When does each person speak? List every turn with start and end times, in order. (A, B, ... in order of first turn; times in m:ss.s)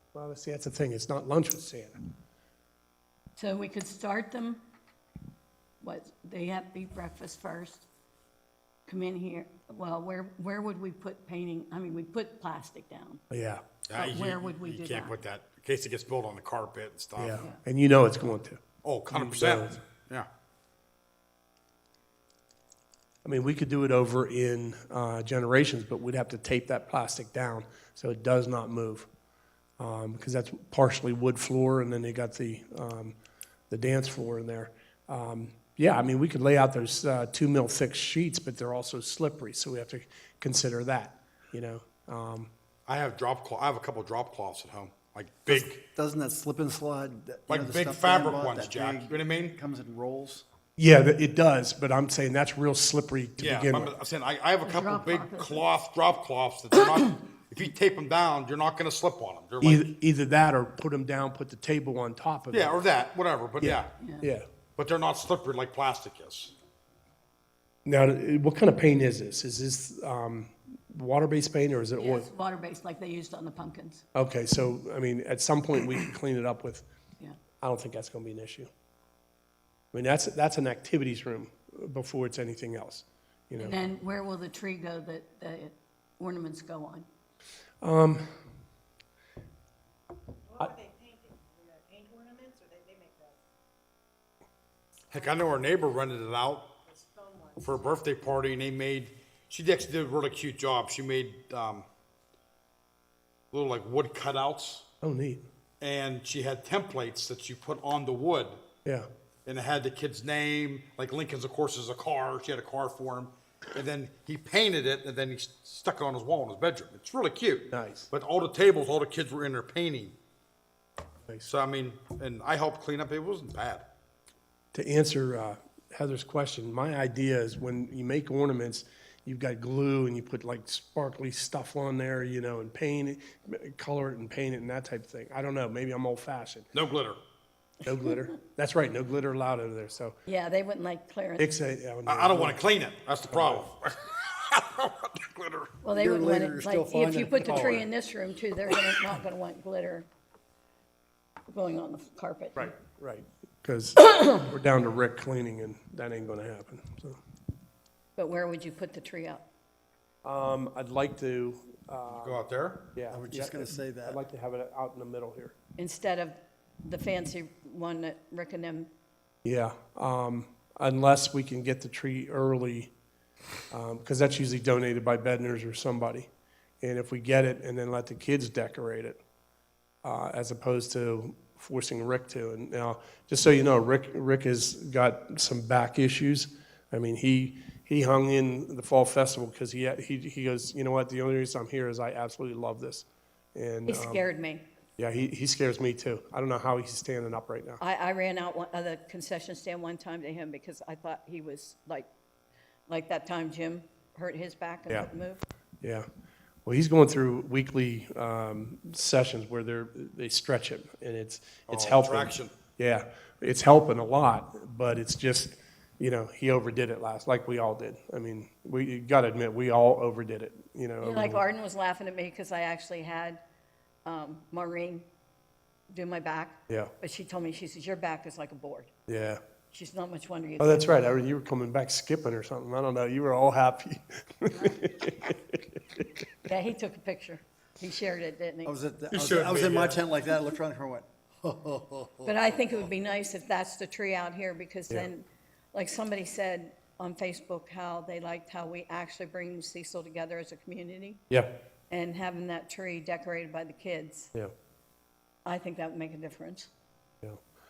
0:00.1-0:02.0 A
0:03.4-0:04.6 B
0:05.8-0:07.9 B
0:08.9-0:13.2 B
0:13.3-0:13.6 A
0:13.9-0:17.4 C
0:14.0-0:15.2 B
0:17.2-0:18.6 A
0:18.8-0:20.3 C
0:19.1-0:19.8 A
0:23.2-0:29.1 A
0:29.8-0:33.2 A
0:33.7-0:42.5 A
0:42.9-0:45.8 C
0:45.5-0:50.4 D
0:47.5-0:49.6 C
0:50.8-0:53.9 A
0:53.4-0:59.9 C
0:54.6-0:55.7 B
0:59.6-1:02.8 A
1:02.5-1:03.9 C
1:03.6-1:04.5 A
1:04.0-1:04.3 B
1:04.8-1:06.5 C
1:07.9-1:12.3 A
1:12.0-1:14.0 B
1:14.2-1:16.9 A
1:17.6-1:18.7 A
1:19.9-1:23.8 A
1:23.6-1:27.1 B
1:27.8-1:28.2 A
1:30.6-1:33.4 E
1:35.1-1:36.7 C
1:37.0-1:37.5 E
1:37.6-1:41.9 C
1:43.5-1:44.8 C
1:45.0-1:45.4 A
1:45.8-1:48.6 C
1:49.5-2:00.1 C
1:57.7-1:58.1 A
2:01.5-2:03.8 C
2:04.7-2:16.7 A
2:16.7-2:17.2 C
2:17.8-2:20.2 A
2:20.3-2:21.5 B
2:21.4-2:22.6 A
2:22.1-2:25.8 C
2:23.3-2:23.6 A
2:25.8-2:30.1 B
2:26.0-2:27.9 D
2:31.5-2:32.7 B
2:32.6-2:37.2 A
2:38.2-2:39.4 B
2:40.2-2:42.4 A
2:42.1-2:42.9 C
2:43.0-2:45.6 A
2:43.1-2:44.2 D
2:45.8-2:48.9 B
2:49.4-2:52.9 A
2:53.7-2:56.3 A
2:56.8-2:59.2 A
3:00.0-3:14.2 A
3:13.9-3:14.7 B
3:15.0-3:17.8 A
3:17.8-3:22.1 B
3:22.9-3:25.4 B
3:25.8-3:26.1 A
3:26.7-3:41.4 A
3:31.7-3:32.5 C
3:41.0-3:43.4 B
3:44.0-3:45.1 B
3:45.9-3:48.9 B
3:49.1-3:49.4 A
3:49.7-3:50.9 B
3:50.6-3:56.1 A
3:56.4-3:58.8 B
3:58.6-4:02.3 D
3:59.1-4:00.0 C
4:02.2-4:11.2 B
4:11.9-4:14.3 B
4:15.4-4:16.7 B